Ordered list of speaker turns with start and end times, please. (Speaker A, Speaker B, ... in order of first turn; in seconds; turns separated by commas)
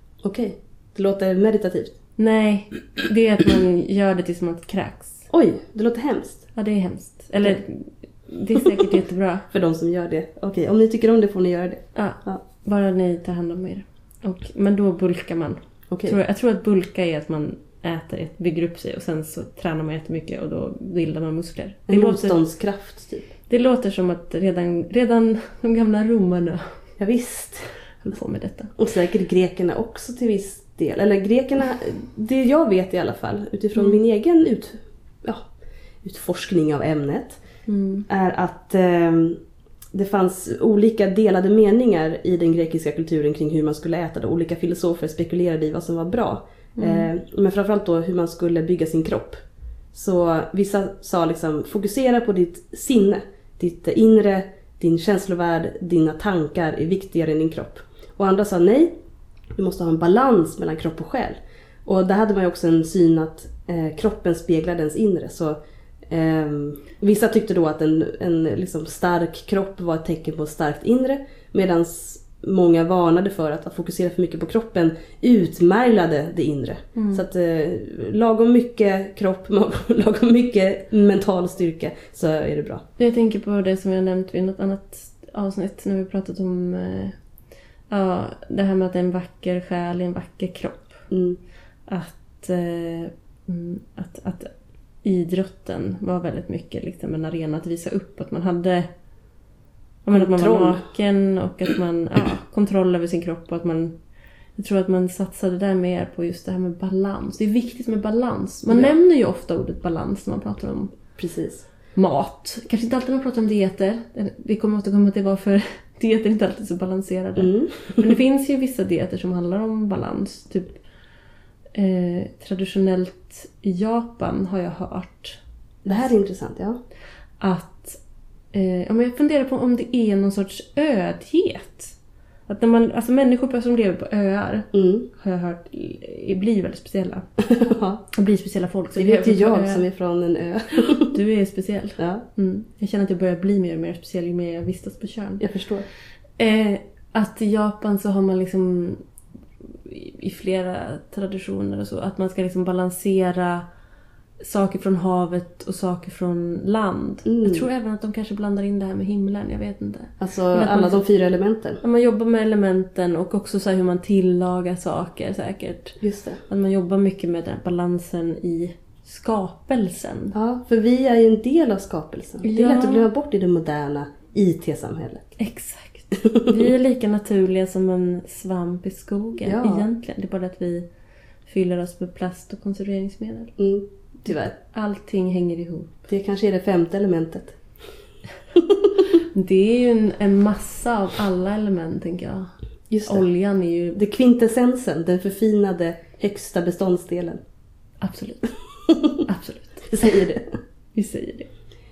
Speaker A: 0.2-1.9, Speaker B: 2.2-5.3, Speaker A: 5.3-6.5, Speaker B: 6.5-9.4, Speaker A: 8.6-9.0, Speaker A: 9.5-12.4, Speaker B: 11.9-22.4, Speaker A: 15.9-16.2, Speaker A: 21.9-23.3, Speaker B: 23.5-26.6, Speaker A: 27.0-27.7, Speaker B: 28.0-28.8, Speaker A: 28.8-35.5, Speaker A: 36.0-37.4, Speaker B: 37.7-38.1, Speaker A: 38.1-39.4, Speaker A: 39.9-49.4, Speaker B: 46.8-47.1, Speaker A: 49.9-58.9, Speaker A: 59.5-65.5, Speaker A: 66.1-82.8, Speaker B: 77.0-77.2, Speaker B: 83.0-87.2, Speaker B: 87.9-91.1, Speaker A: 91.1-91.4, Speaker B: 91.9-94.5, Speaker B: 95.0-98.9, Speaker B: 100.0-103.9, Speaker A: 100.1-100.8, Speaker B: 104.5-110.9, Speaker A: 111.2-111.7, Speaker B: 111.9-120.8, Speaker A: 117.4-118.1, Speaker B: 121.7-125.4, Speaker A: 125.8-126.8, Speaker B: 127.4-128.0, Speaker B: 128.5-131.9, Speaker B: 132.5-137.2, Speaker A: 134.7-135.1, Speaker A: 137.4-138.0, Speaker B: 138.1-139.8, Speaker A: 138.9-141.1, Speaker B: 141.0-145.4, Speaker A: 142.0-142.2, Speaker A: 145.4-145.9, Speaker B: 146.4-149.0, Speaker B: 149.8-153.7, Speaker B: 154.4-161.0, Speaker A: 157.2-157.7, Speaker A: 160.2-161.8, Speaker B: 161.8-170.3, Speaker A: 166.0-166.4, Speaker A: 170.3-175.3, Speaker B: 172.4-173.1, Speaker B: 175.4-180.8, Speaker A: 176.2-176.5, Speaker A: 179.4-179.8, Speaker B: 181.4-183.5, Speaker A: 183.6-184.5, Speaker B: 184.3-185.9, Speaker A: 186.1-187.6, Speaker A: 188.5-188.9, Speaker B: 189.2-192.5, Speaker A: 192.9-193.2, Speaker B: 193.1-194.0, Speaker A: 193.9-197.4, Speaker B: 198.0-198.5, Speaker A: 198.9-199.2, Speaker B: 199.2-200.2, Speaker A: 199.9-200.6, Speaker B: 200.9-201.5